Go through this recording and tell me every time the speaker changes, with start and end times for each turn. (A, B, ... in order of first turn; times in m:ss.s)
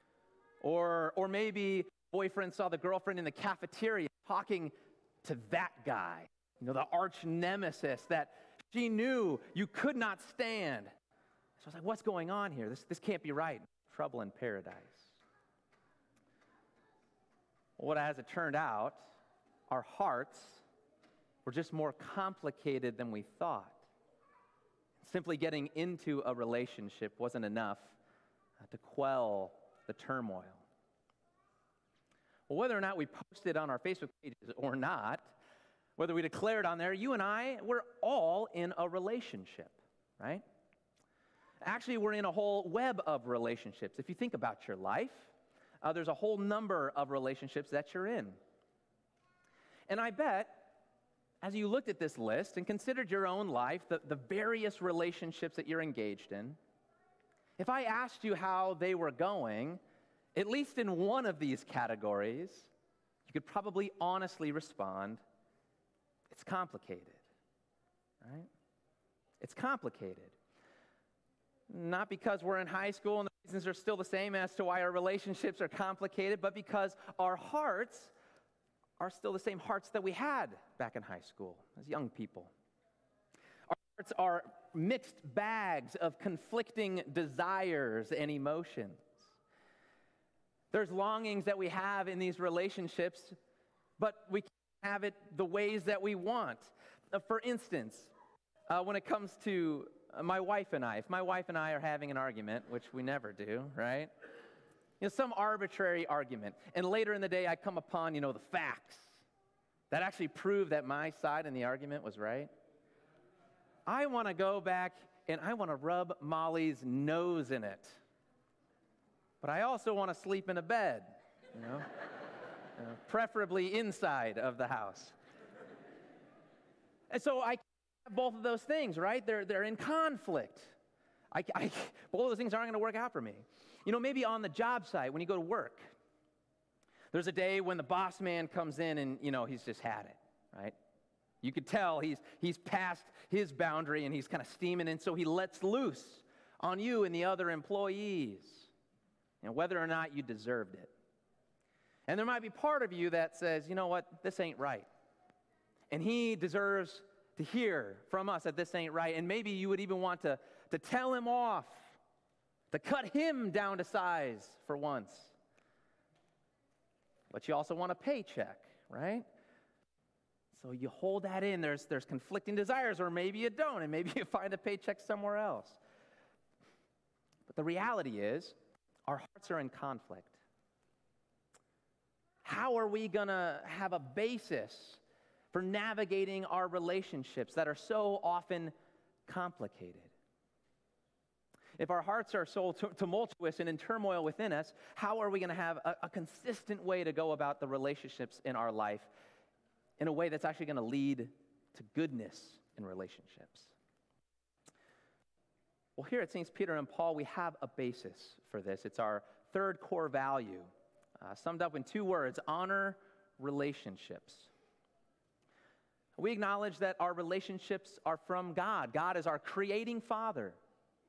0:00.6-0:10.9 A
0:11.6-0:15.1 A
0:17.8-0:19.0 A
0:19.7-0:20.6 A
0:21.4-0:23.8 A
0:25.0-0:28.0 A
0:28.6-0:30.6 A
0:32.5-0:35.3 A
0:36.0-0:40.4 A
0:41.6-0:48.4 A
0:49.9-0:50.7 A
0:51.4-0:56.6 A
0:57.6-0:59.8 A
1:00.3-1:02.7 A
1:03.2-1:05.2 A
1:06.3-1:07.2 A
1:08.2-1:08.5 A
1:09.4-1:10.3 A
1:11.7-1:18.1 A
1:19.0-1:22.5 A
1:23.7-1:29.2 A
1:30.7-1:33.4 A
1:34.0-1:38.1 A
1:38.7-1:44.1 A
1:45.0-1:49.2 A
1:49.9-1:52.5 A
1:53.8-1:58.0 A
1:59.4-2:02.0 A
2:02.7-2:05.1 A
2:07.1-2:10.7 A
2:11.3-2:15.9 A
2:17.1-2:20.8 A
2:21.4-2:28.7 A
2:29.4-2:30.9 A
2:32.1-2:34.9 A
2:35.9-2:42.0 A
2:42.7-2:45.3 A
2:47.3-2:49.2 A
2:50.5-2:55.8 A
2:57.5-2:58.6 A
2:59.1-3:00.4 A
3:02.4-3:05.0 A
3:05.5-3:08.7 A
3:09.3-3:10.1 A
3:11.8-3:19.1 A
3:20.0-3:23.7 A
3:26.0-3:34.5 A
3:36.2-3:40.6 A